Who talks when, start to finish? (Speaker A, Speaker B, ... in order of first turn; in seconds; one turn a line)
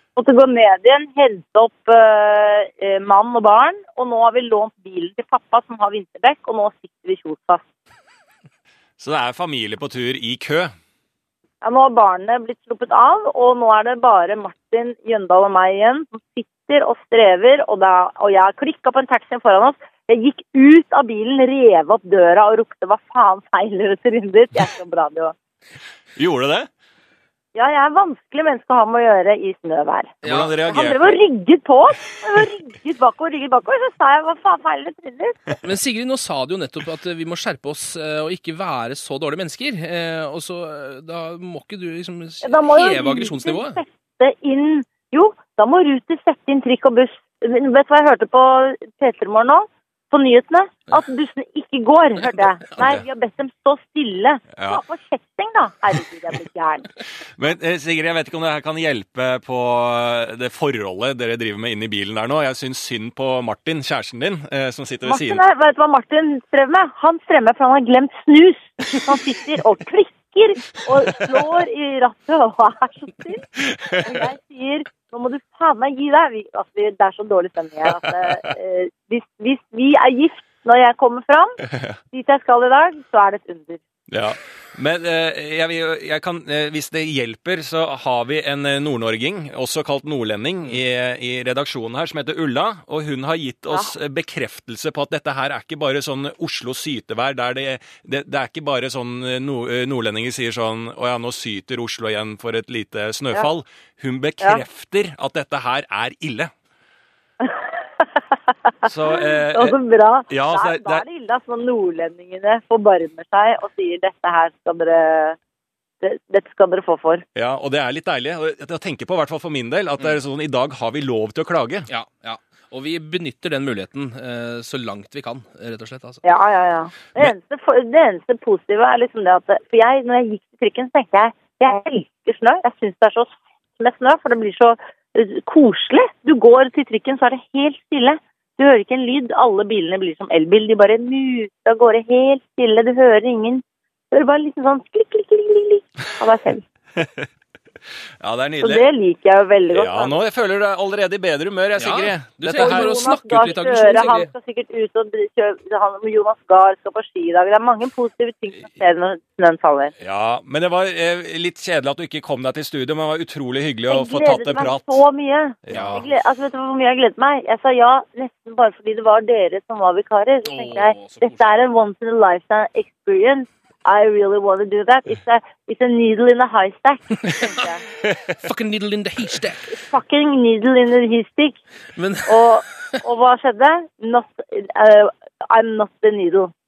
Speaker A: 0.2-7.6
Speaker B: 9.0-10.7
Speaker A: 11.6-25.3
Speaker B: 26.2-26.7
Speaker A: 27.6-35.5
Speaker C: 30.2-30.8
Speaker B: 30.2-31.2
Speaker C: 35.6-43.8
Speaker A: 42.4-56.9
Speaker C: 52.2-53.0
Speaker B: 57.4-65.4
Speaker A: 65.0-73.5
Speaker B: 73.7-74.2
Speaker A: 74.0-81.6
Speaker B: 81.7-82.0
Speaker A: 82.1-83.8
Speaker B: 84.1-106.5
Speaker A: 107.4-107.8
Speaker B: 108.8-109.8
Speaker A: 108.9-115.4
Speaker B: 110.3-111.0
Speaker A: 116.0-117.2
Speaker B: 117.3-121.9
Speaker C: 121.9-126.2
Speaker A: 126.2-146.6
Speaker B: 147.0-147.3
Speaker B: 148.2-148.8
Speaker A: 148.6-150.2
Speaker B: 149.7-152.9
Speaker C: 151.8-154.3
Speaker A: 152.5-159.9
Speaker B: 160.0-165.0
Speaker A: 163.9-177.8
Speaker B: 165.7-166.0
Speaker C: 165.7-166.1
Speaker C: 170.5-171.5
Speaker C: 177.3-177.7
Speaker C: 178.3-179.8
Speaker A: 179.7-181.6
Speaker C: 181.9-183.0
Speaker A: 182.3-186.5